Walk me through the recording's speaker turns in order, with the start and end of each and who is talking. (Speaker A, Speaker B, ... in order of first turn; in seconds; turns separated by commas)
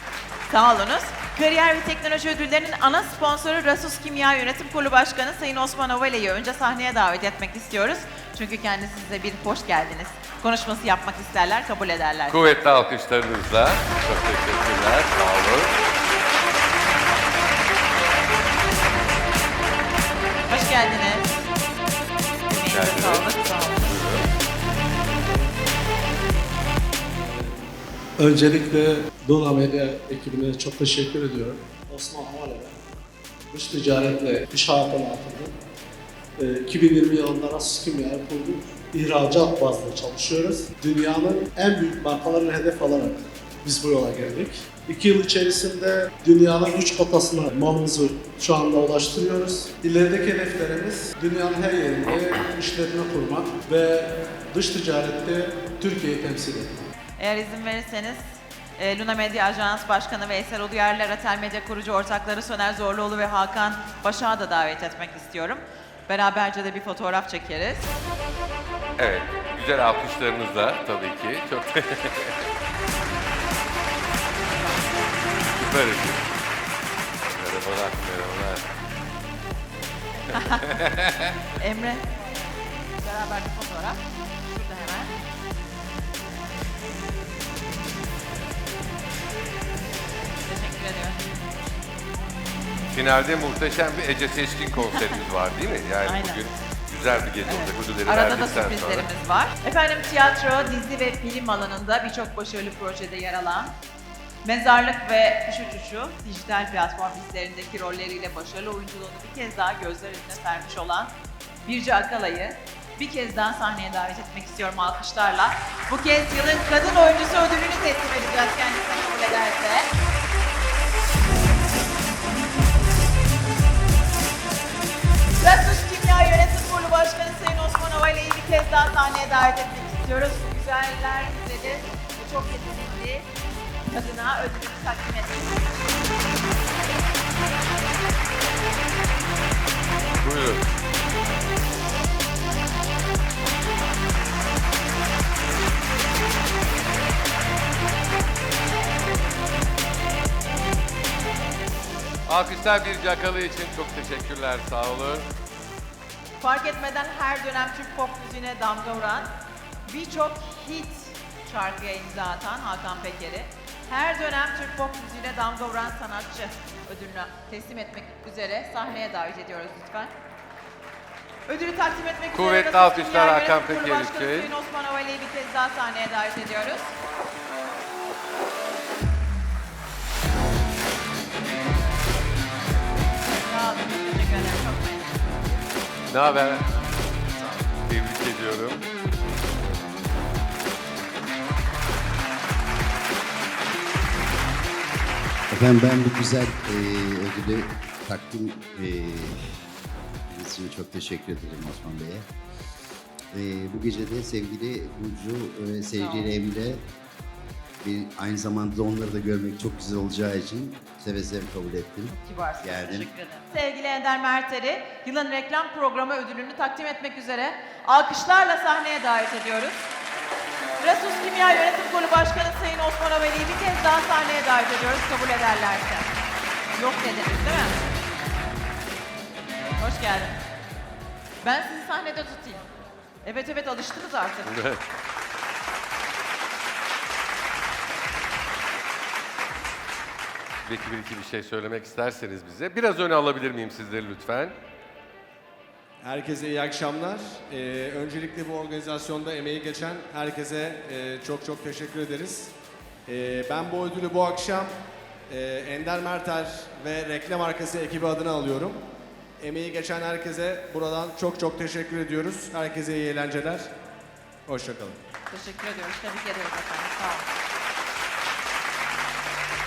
Speaker A: 0.5-12.5, Speaker B: 12.3-15.8, Speaker A: 20.5-21.4, Speaker A: 22.5-24.0, Speaker B: 22.6-23.3, Speaker B: 23.8-24.3, Speaker C: 25.2-25.5, Speaker C: 27.1-27.6, Speaker C: 28.2-32.8, Speaker C: 33.5-35.5, Speaker C: 36.4-56.7, Speaker A: 57.2-58.2, Speaker A: 58.8-68.0, Speaker B: 69.0-72.4, Speaker B: 75.5-76.3, Speaker B: 77.3-78.6, Speaker A: 80.3-80.8, Speaker B: 80.3-81.3, Speaker A: 81.6-82.0, Speaker A: 83.0-85.1, Speaker A: 90.5-91.4, Speaker B: 92.9-99.0, Speaker A: 96.0-96.4, Speaker A: 97.5-103.7, Speaker A: 104.4-111.1, Speaker A: 111.7-119.9, Speaker A: 125.4-133.3, Speaker A: 133.9-135.7, Speaker B: 140.2-140.6, Speaker B: 152.3-155.3, Speaker A: 156.4-159.3, Speaker A: 159.9-170.1, Speaker A: 171.5-176.9, Speaker B: 172.3-174.5, Speaker A: 183.1-185.4, Speaker B: 186.1-187.0, Speaker B: 187.8-188.8, Speaker D: 195.5-199.6, Speaker D: 200.3-202.3, Speaker D: 203.3-206.8, Speaker A: 206.0-206.3, Speaker D: 207.8-213.1, Speaker A: 212.1-219.8, Speaker A: 220.8-226.1, Speaker A: 226.7-227.8, Speaker A: 229.8-230.4, Speaker A: 231.4-232.7, Speaker A: 233.2-234.5, Speaker B: 234.5-234.8, Speaker B: 240.6-244.6, Speaker E: 246.0-252.5, Speaker E: 253.1-258.8, Speaker E: 259.4-263.7, Speaker E: 264.4-265.0, Speaker A: 265.3-267.3